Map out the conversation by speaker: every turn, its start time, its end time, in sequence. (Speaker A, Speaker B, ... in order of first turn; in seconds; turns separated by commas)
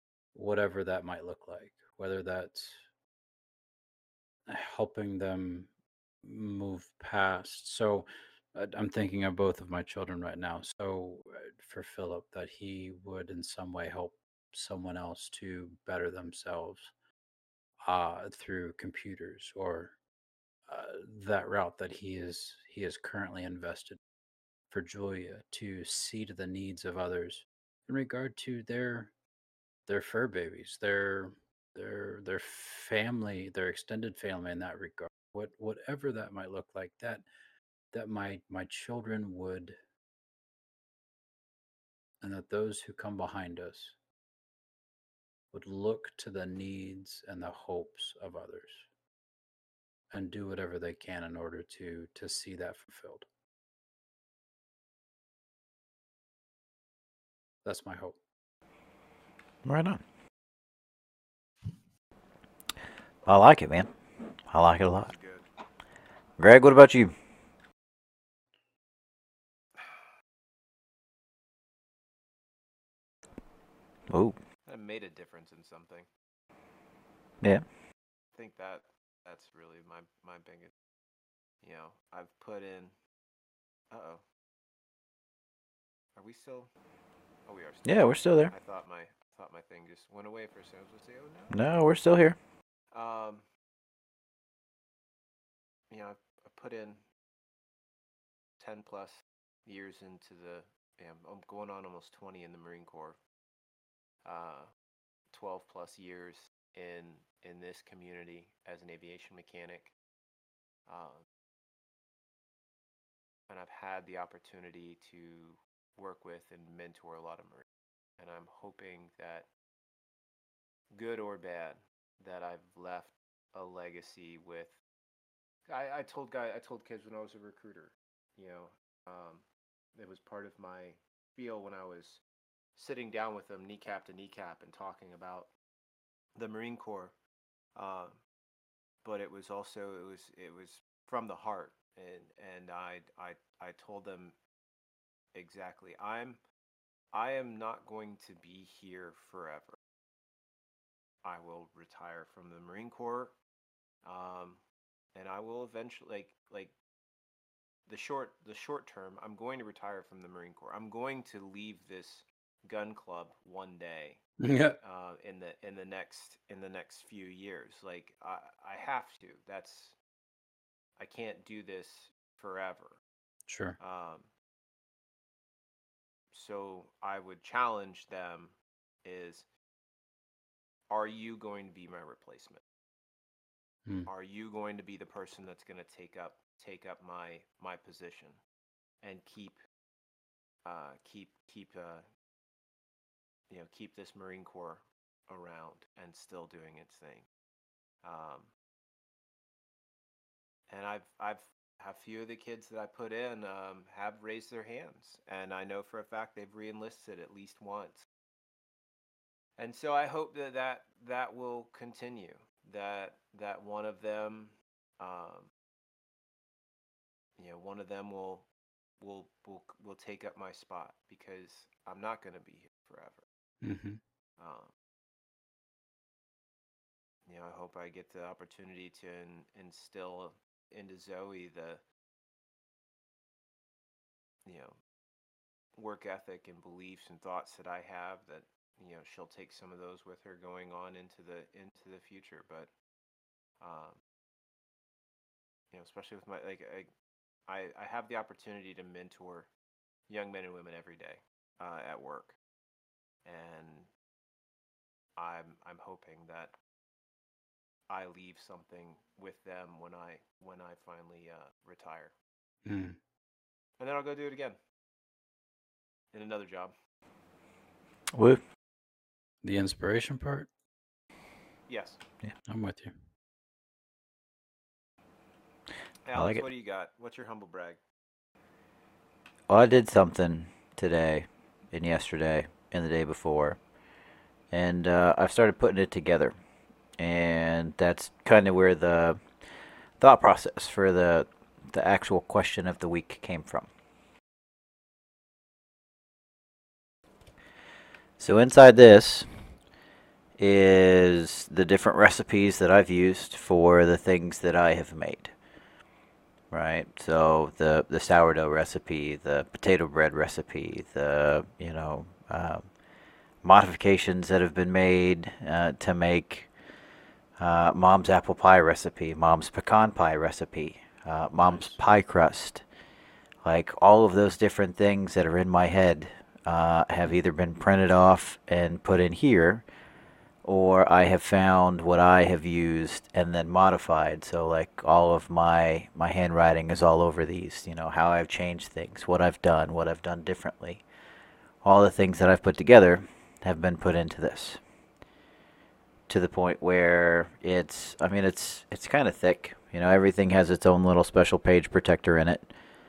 Speaker A: 0.3-2.8, Speaker A: 4.5-5.7, Speaker A: 6.2-16.9, Speaker A: 17.9-19.9, Speaker A: 20.7-24.0, Speaker A: 24.7-29.1, Speaker A: 29.9-37.3, Speaker A: 37.9-39.8, Speaker A: 42.2-44.0, Speaker A: 45.5-48.9, Speaker A: 50.1-53.3, Speaker A: 57.6-58.2, Speaker B: 59.6-60.0, Speaker B: 63.3-63.9, Speaker B: 64.5-65.1, Speaker C: 64.9-65.5, Speaker B: 66.4-67.1, Speaker C: 69.8-70.0, Speaker B: 74.1-74.4, Speaker C: 74.7-76.1, Speaker C: 78.3-80.7, Speaker C: 81.6-83.0, Speaker C: 83.9-84.2, Speaker C: 86.2-86.7, Speaker C: 87.5-91.6, Speaker B: 87.8-88.5, Speaker B: 91.5-92.4, Speaker C: 92.9-93.5, Speaker C: 95.9-97.0, Speaker C: 98.6-103.2, Speaker C: 104.2-104.7, Speaker C: 105.3-109.9, Speaker C: 110.9-111.2, Speaker C: 113.5-117.7, Speaker C: 118.2-119.5, Speaker C: 120.9-124.8, Speaker C: 125.7-132.2, Speaker C: 132.8-135.5, Speaker C: 136.3-137.2, Speaker C: 137.8-138.2, Speaker C: 139.0-144.4, Speaker C: 145.3-146.4, Speaker C: 147.1-149.8, Speaker C: 151.2-153.4, Speaker C: 154.0-154.6, Speaker C: 155.2-156.7, Speaker C: 157.9-164.2, Speaker A: 164.4-164.8, Speaker C: 164.8-170.0, Speaker C: 171.0-173.0, Speaker A: 173.5-173.8, Speaker C: 173.8-174.3, Speaker C: 176.3-179.5, Speaker C: 180.9-182.6, Speaker C: 184.1-188.4, Speaker C: 189.0-189.6, Speaker C: 190.7-192.1, Speaker C: 193.5-197.3, Speaker C: 198.0-198.5, Speaker C: 200.7-208.1, Speaker C: 209.6-215.5, Speaker C: 217.4-218.5, Speaker C: 219.0-223.2, Speaker A: 223.6-224.0, Speaker C: 224.4-224.7, Speaker C: 227.3-231.8, Speaker C: 234.5-234.7, Speaker C: 235.8-242.7, Speaker C: 243.6-244.0, Speaker C: 245.7-246.9, Speaker C: 247.5-249.5, Speaker C: 250.1-252.4, Speaker C: 253.2-253.9, Speaker C: 255.2-256.6, Speaker C: 257.9-262.1, Speaker A: 262.7-263.0, Speaker C: 263.8-264.6, Speaker C: 266.1-266.8, Speaker B: 268.1-268.4, Speaker A: 269.4-270.5, Speaker C: 271.7-272.0, Speaker A: 272.5-272.9, Speaker C: 276.1-277.8, Speaker B: 276.1-276.4, Speaker B: 279.5-283.6, Speaker B: 284.5-286.3, Speaker B: 287.0-289.2, Speaker B: 290.0-293.7, Speaker B: 298.2-299.3, Speaker B: 300.4-305.3, Speaker B: 306.5-312.7, Speaker B: 313.4-316.5, Speaker B: 317.4-322.6, Speaker A: 321.4-321.8, Speaker B: 323.4-329.6, Speaker B: 330.4-340.8, Speaker B: 341.6-344.6, Speaker B: 346.1-352.5